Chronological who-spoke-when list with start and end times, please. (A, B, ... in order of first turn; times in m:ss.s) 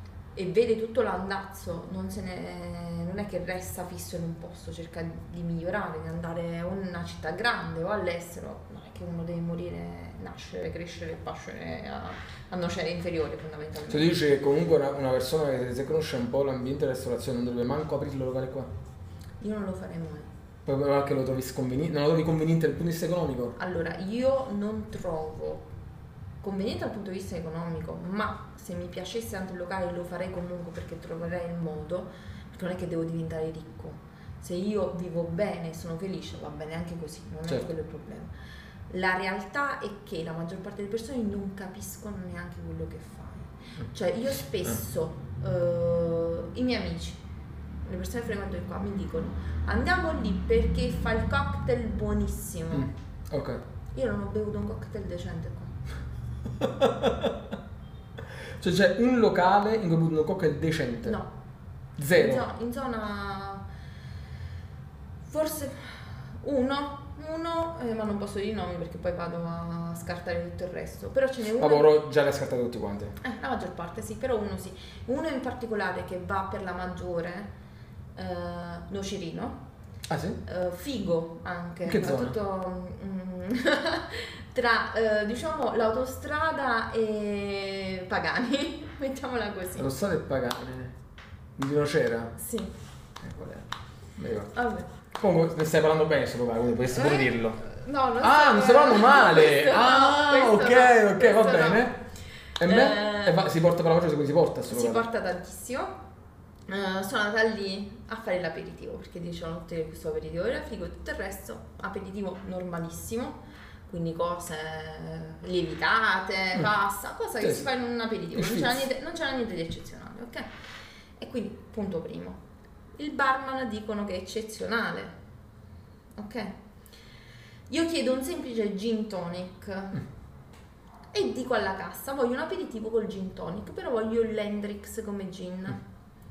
0:00.3-0:14.2 A
0:13.9-0:18.7 B
0:19.4-0:20.3 A
0:20.6-0:23.5 B
0:23.6-0:25.6 A
0:26.4-0:38.3 A
0:38.9-0:47.2 A
0:47.9-0:52.9 A
0:52.7-0:53.6 B
0:53.9-0:55.8 A
0:56.6-0:57.3 B
0:58.6-1:01.2 B
1:01.0-1:01.3 A
1:02.0-1:02.4 B
1:02.1-1:03.6 A
1:05.2-1:11.9 A
1:11.6-1:13.2 B
1:13.2-1:17.5 A
1:18.2-1:19.6 A
1:20.1-1:20.4 B
1:20.4-1:29.9 A
1:21.9-1:22.4 B
1:29.8-1:30.9 B
1:31.6-1:32.3 B
1:32.4-1:32.7 A
1:33.2-1:33.6 B
1:34.2-1:34.5 B
1:34.5-1:34.9 A
1:35.1-1:37.6 B
1:36.9-1:41.9 A
1:38.2-1:42.0 B
1:42.6-1:45.0 B
1:42.6-1:43.4 A
1:44.7-1:45.9 A
1:46.7-2:00.5 A
1:57.4-1:57.6 B
1:58.3-1:58.8 B
2:01.2-2:02.4 A
2:03.0-2:05.1 A
2:06.2-2:06.5 A
2:07.7-2:10.0 A
2:11.1-2:15.8 A